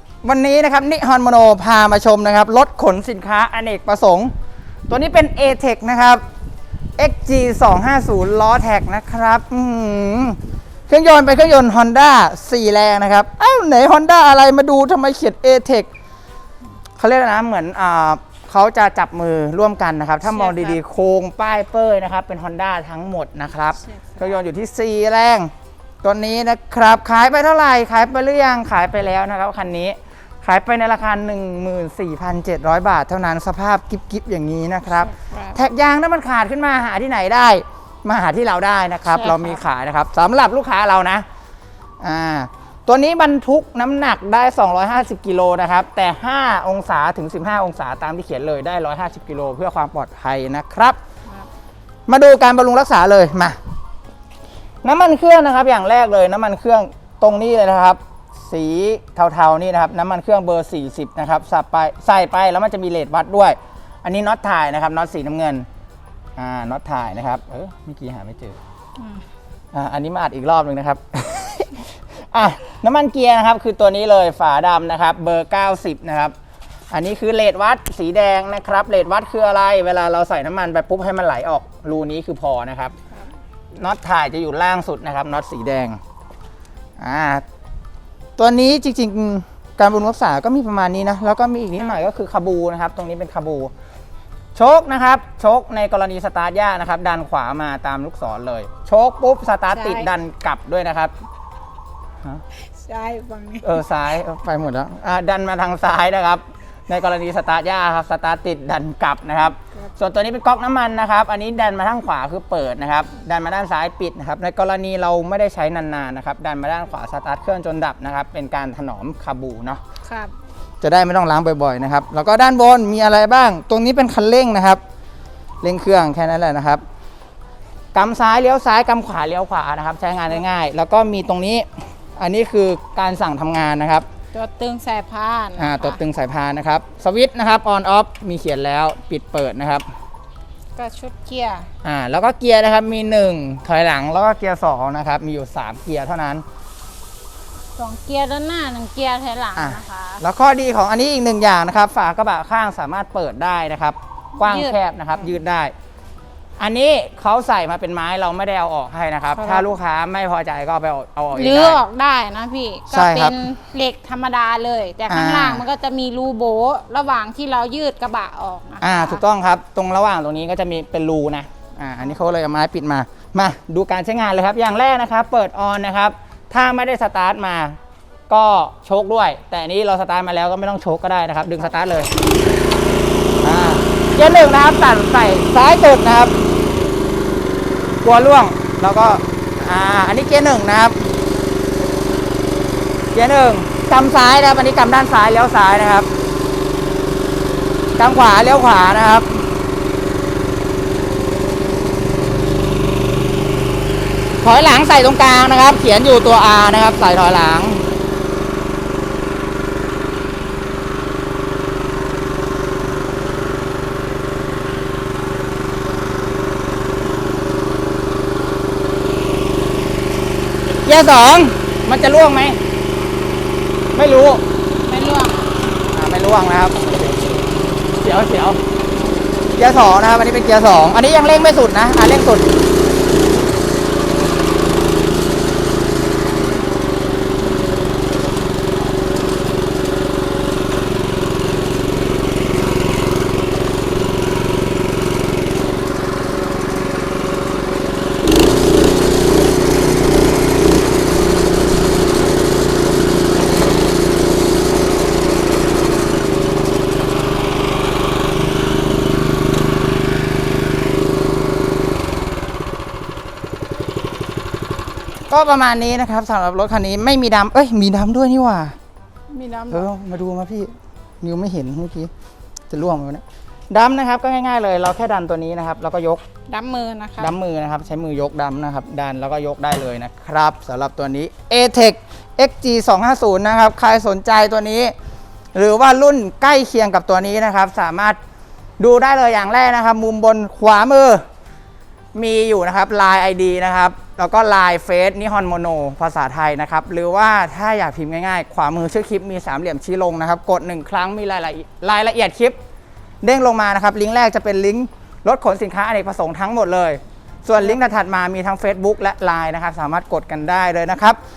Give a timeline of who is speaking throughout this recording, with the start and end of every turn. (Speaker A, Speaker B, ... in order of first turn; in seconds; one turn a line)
Speaker A: 0.2-4.3
Speaker A: 4.9-6.2
Speaker A: 7.0-15.9
Speaker A: 17.0-25.5
Speaker B: 20.3-20.8
Speaker B: 23.8-24.3
Speaker A: 26.0-41.2
Speaker B: 34.9-35.6
Speaker B: 39.1-39.6
Speaker A: 42.0-51.0
Speaker A: 52.1-53.6
Speaker A: 54.8-65.7
Speaker A: 66.3-68.6
Speaker A: 69.7-76.3
Speaker A: 76.9-83.0
Speaker A: 83.7-86.0
Speaker A: 87.0-87.4
Speaker A: 88.4-93.7
Speaker A: 94.5-101.1
Speaker B: 99.7-100.1
Speaker B: 102.7-103.8
Speaker A: 103.6-119.8
Speaker B: 120.0-120.3
Speaker A: 120.8-124.8
Speaker A: 125.6-126.8
Speaker A: 127.9-134.1
Speaker B: 134.3-136.0
Speaker A: 135.6-139.9
Speaker B: 140.8-141.7
Speaker A: 141.8-146.4
Speaker B: 147.8-150.2
Speaker A: 149.6-155.7
Speaker B: 154.4-154.8
Speaker A: 156.6-161.8
Speaker B: 159.3-159.7
Speaker B: 161.3-169.2
Speaker A: 162.9-163.4
Speaker A: 165.1-165.6
Speaker A: 168.8-177.8
Speaker A: 178.3-182.1
Speaker A: 183.4-186.4
Speaker A: 188.0-191.1
Speaker A: 193.1-196.1
Speaker A: 198.0-199.5
Speaker A: 204.4-207.8
Speaker A: 220.8-222.6
Speaker A: 223.9-224.4
Speaker B: 224.8-225.5
Speaker A: 225.9-227.3
Speaker A: 227.9-228.6
Speaker A: 229.6-232.5
Speaker A: 265.3-268.8
Speaker B: 269.3-269.9
Speaker A: 269.7-272.1
Speaker A: 272.7-276.2
Speaker B: 276.5-277.3
Speaker A: 277.2-284.9
Speaker A: 285.5-288.2
Speaker A: 288.8-291.2
Speaker A: 292.1-302.6
Speaker A: 303.2-311.2